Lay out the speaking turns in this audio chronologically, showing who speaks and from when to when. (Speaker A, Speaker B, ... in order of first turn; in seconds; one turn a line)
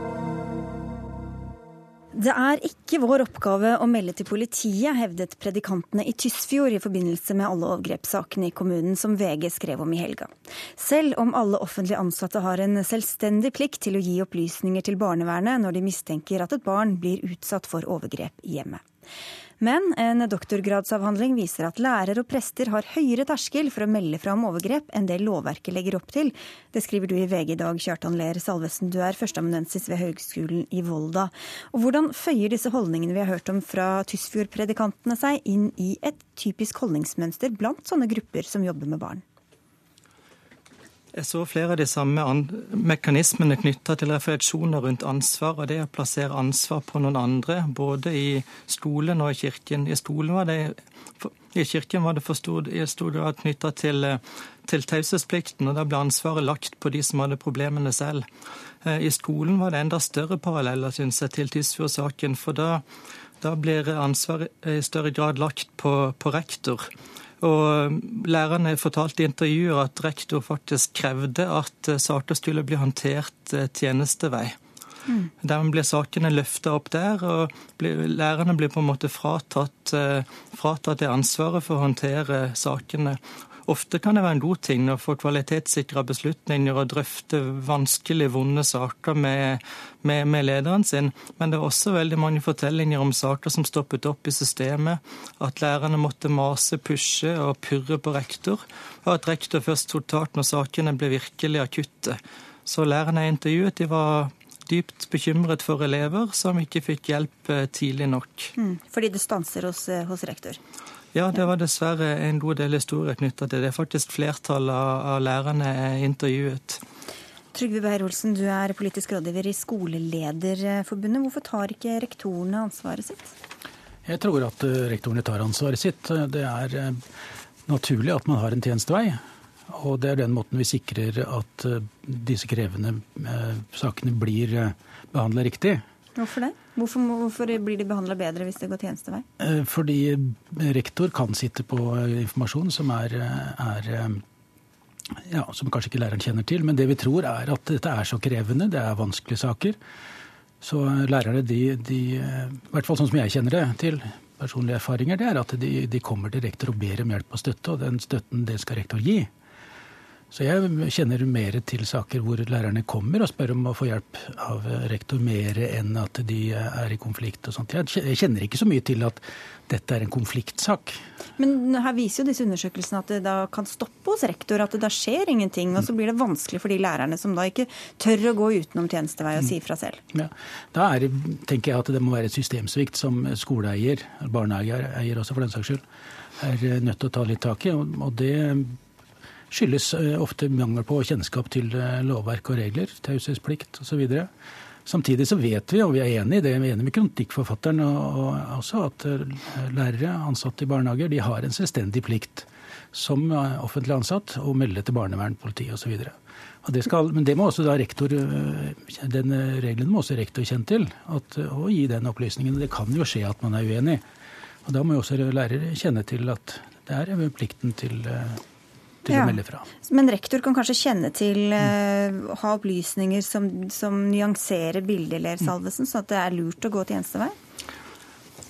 Speaker A: 2.1-18.8
Speaker A: 19.6-39.2
Speaker B: 41.1-58.3
Speaker B: 58.8-62.8
Speaker B: 63.4-66.9
Speaker B: 67.4-74.6
Speaker B: 75.4-108.5
Speaker A: 108.6-110.6
Speaker B: 111.1-116.8
Speaker A: 117.5-123.3
Speaker C: 124.1-127.0
Speaker C: 127.7-135.8
Speaker A: 136.2-139.2
Speaker C: 139.4-144.2
Speaker C: 145.3-149.8
Speaker C: 150.6-159.3
Speaker C: 160.3-171.0
Speaker A: 171.4-180.0
Speaker C: 180.1-185.8
Speaker C: 186.4-188.8
Speaker C: 189.5-194.3
Speaker C: 194.9-214.0
Speaker C: 214.7-218.4
Speaker C: 219.0-219.7
Speaker A: 219.1-227.3